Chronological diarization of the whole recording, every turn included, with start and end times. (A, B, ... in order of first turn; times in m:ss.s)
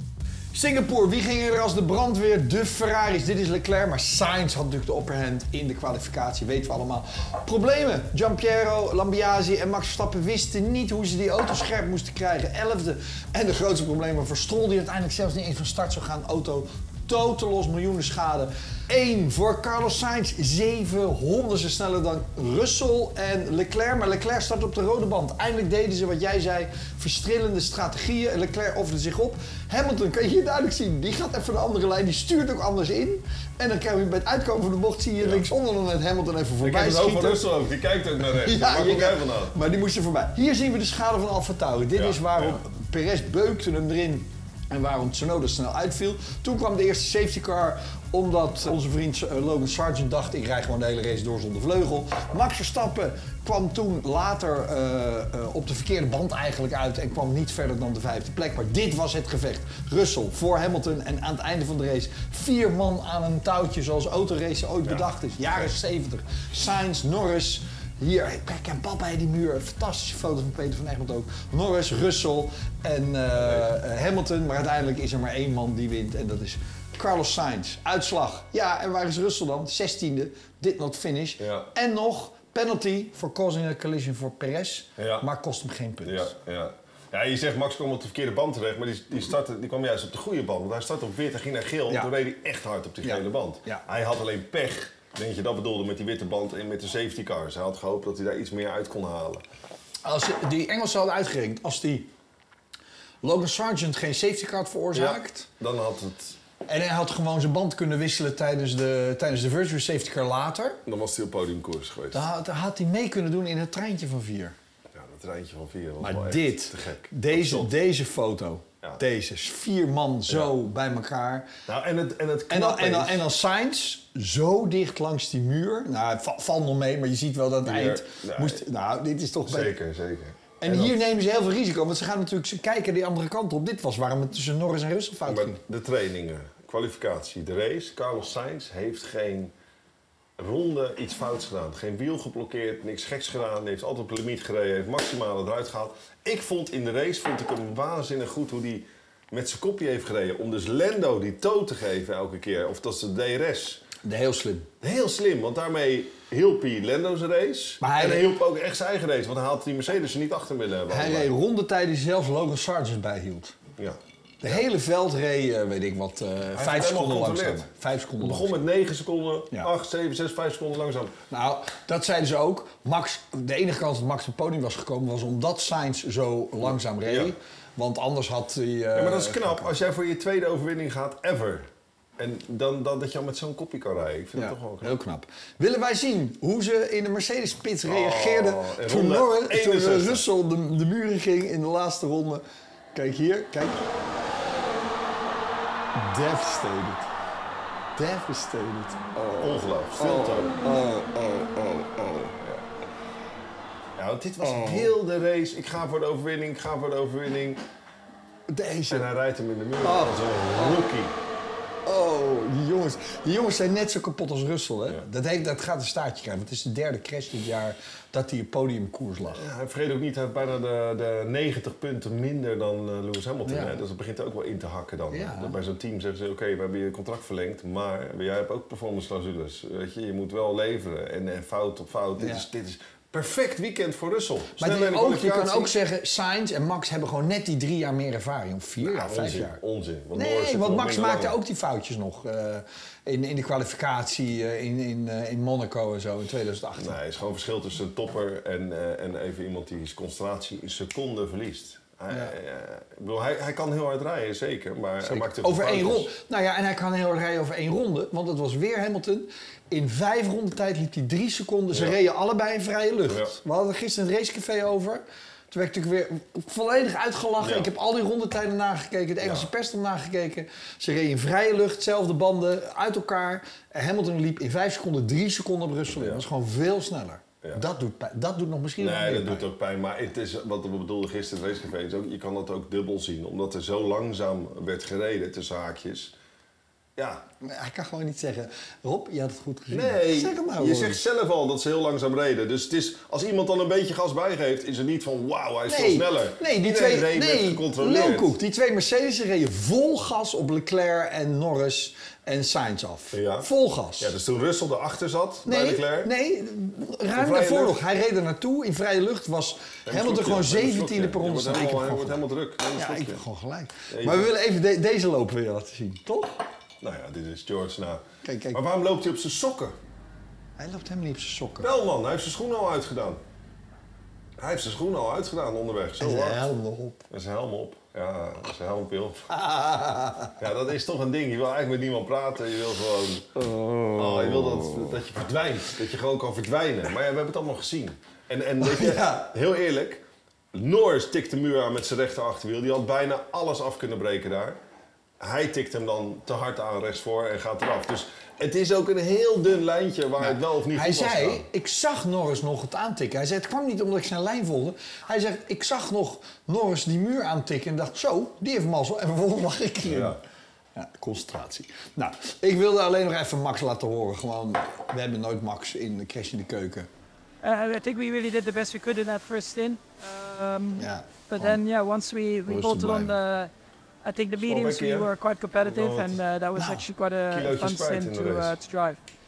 0:00.5-0:37.5 A
0:35.2-0:35.4 B
0:36.6-0:39.6 B
0:38.3-1:26.3 A
0:41.9-0:42.6 B
1:04.8-1:05.7 B
1:13.4-1:13.7 B
1:21.4-1:21.7 B
1:25.0-1:25.2 B
1:26.0-1:39.4 B
1:33.0-1:33.8 A
1:40.0-1:42.1 A
1:43.2-1:45.5 A
1:44.9-1:46.4 B
1:46.6-1:50.8 A
1:50.8-1:52.2 B
1:52.1-1:54.5 A
1:54.9-1:57.8 B
1:56.0-2:01.5 A
2:00.3-2:00.5 B
2:01.6-2:03.3 B
2:02.5-2:09.8 A
2:07.6-2:08.6 B
2:09.4-2:11.0 B
2:10.6-2:15.6 A
2:15.2-2:19.5 B
2:20.4-2:33.8 B
2:34.0-2:34.7 A
2:34.8-2:41.3 B
2:37.8-2:38.3 A
2:40.9-2:43.5 A
2:43.8-2:44.6 B
2:44.4-2:48.6 A
2:46.5-2:51.2 B
2:51.3-2:59.7 A
2:57.0-2:57.3 B
2:58.9-3:05.0 B
3:04.3-3:13.9 A
3:07.8-3:10.2 B
3:15.9-3:17.0 A
3:18.0-3:22.4 A
3:19.4-3:20.6 B
3:24.0-3:27.6 B
3:24.4-3:24.9 A
3:28.5-3:29.1 A
3:28.9-3:31.2 B
3:29.8-3:30.8 A
3:31.8-3:39.4 A
3:39.3-3:55.7 B
3:43.4-3:43.8 A
3:45.1-3:45.5 A
3:52.2-3:52.4 A
3:54.6-3:59.6 A
3:58.8-4:01.4 B
4:00.1-4:07.0 A
4:06.8-4:16.1 B
4:15.0-4:39.5 A
4:21.7-4:22.0 B
4:23.1-4:23.4 B
4:27.4-4:27.7 B
4:29.2-4:29.5 B
4:35.9-4:36.2 B
4:38.8-4:46.1 B
4:47.0-4:47.2 B
4:47.4-4:51.0 A
4:49.7-4:58.3 B
4:55.7-5:04.1 A
5:03.1-5:03.5 B
5:04.0-5:06.1 B
5:05.4-5:12.2 A
5:07.1-5:07.8 B
5:09.8-5:13.2 B
5:12.7-5:16.4 A
5:13.9-5:14.3 B
5:16.8-5:19.8 B
5:18.2-5:18.6 A
5:20.6-5:21.7 A
5:21.6-5:23.2 B
5:24.4-5:26.5 B
5:26.0-5:27.0 A
5:27.1-5:29.3 B
5:29.3-5:30.3 A
5:30.4-5:33.3 B
5:33.3-5:35.0 A
5:33.9-5:44.6 B
5:38.6-5:39.3 A
5:45.2-5:51.4 B
5:50.2-6:00.2 A
5:59.8-6:00.2 B
6:00.7-6:06.9 A
6:07.4-6:13.5 C
6:10.8-6:11.6 A
6:12.5-6:13.2 A
6:14.0-6:19.0 C
6:14.4-6:16.2 B
6:16.5-6:16.9 A
6:17.3-6:18.6 B